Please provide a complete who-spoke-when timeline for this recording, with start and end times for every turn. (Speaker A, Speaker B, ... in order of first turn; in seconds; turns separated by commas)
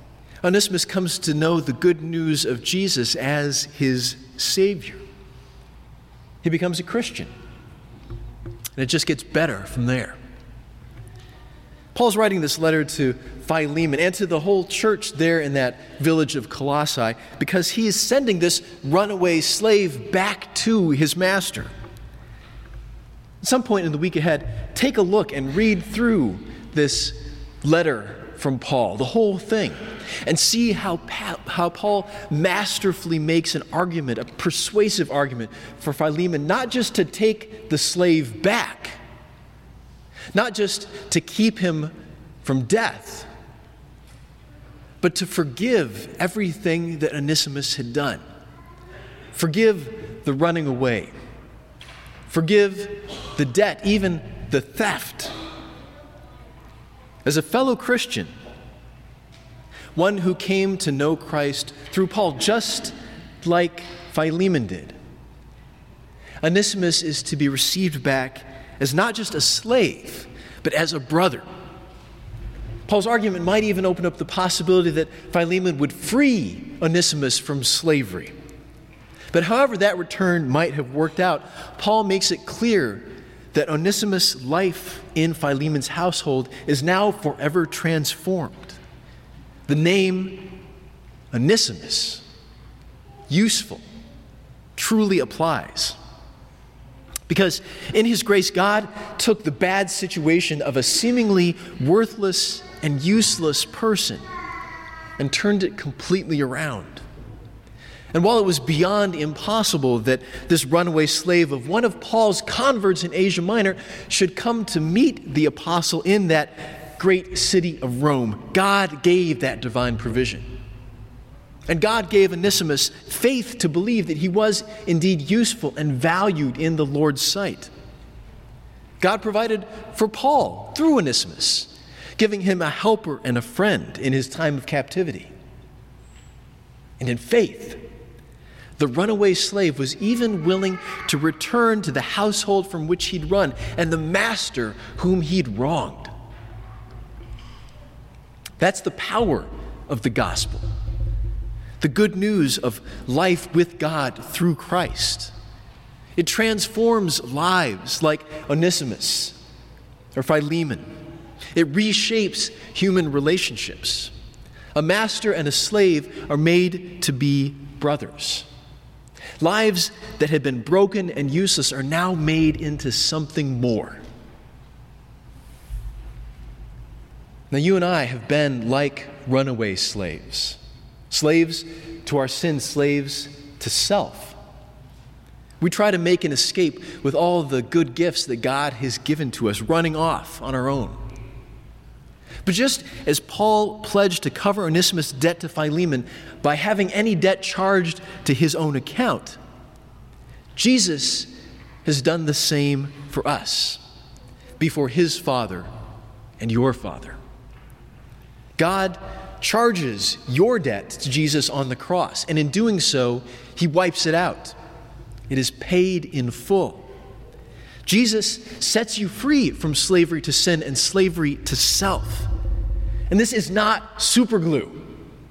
Speaker A: 0.4-5.0, Speaker A: 6.4-7.3, Speaker A: 8.8-10.2, Speaker A: 11.9-21.7, Speaker A: 23.4-39.0, Speaker A: 40.3-43.3, Speaker A: 45.0-48.2, Speaker A: 49.3-51.1, Speaker A: 52.3-55.3, Speaker A: 57.2-58.3, Speaker A: 60.0-65.0, Speaker A: 66.4-71.5, Speaker A: 72.9-78.3, Speaker A: 79.3-88.8, Speaker A: 89.7-90.6, Speaker A: 91.3-92.2, Speaker A: 93.3-93.8, Speaker A: 94.8-96.0, Speaker A: 97.3-104.2, Speaker A: 105.2-107.0, Speaker A: 108.1-120.5, Speaker A: 121.7-127.7, Speaker A: 129.0-135.3, Speaker A: 137.0-137.8, Speaker A: 138.8-146.1, Speaker A: 148.6-150.7, Speaker A: 151.8-155.3, Speaker A: 156.2-159.4, Speaker A: 160.2-160.9, Speaker A: 161.6-164.1, Speaker A: 164.8-168.5, Speaker A: 169.4-174.0, Speaker A: 177.5-180.6, Speaker A: 181.1-184.4, Speaker A: 185.6-191.0, Speaker A: 192.4-199.4, Speaker A: 200.6-201.3, Speaker A: 201.8-203.8, Speaker A: 204.6-205.7, Speaker A: 206.4-207.2, Speaker A: 208.6-214.6, Speaker A: 215.3-216.8, Speaker A: 217.9-222.3, Speaker A: 223.1-224.9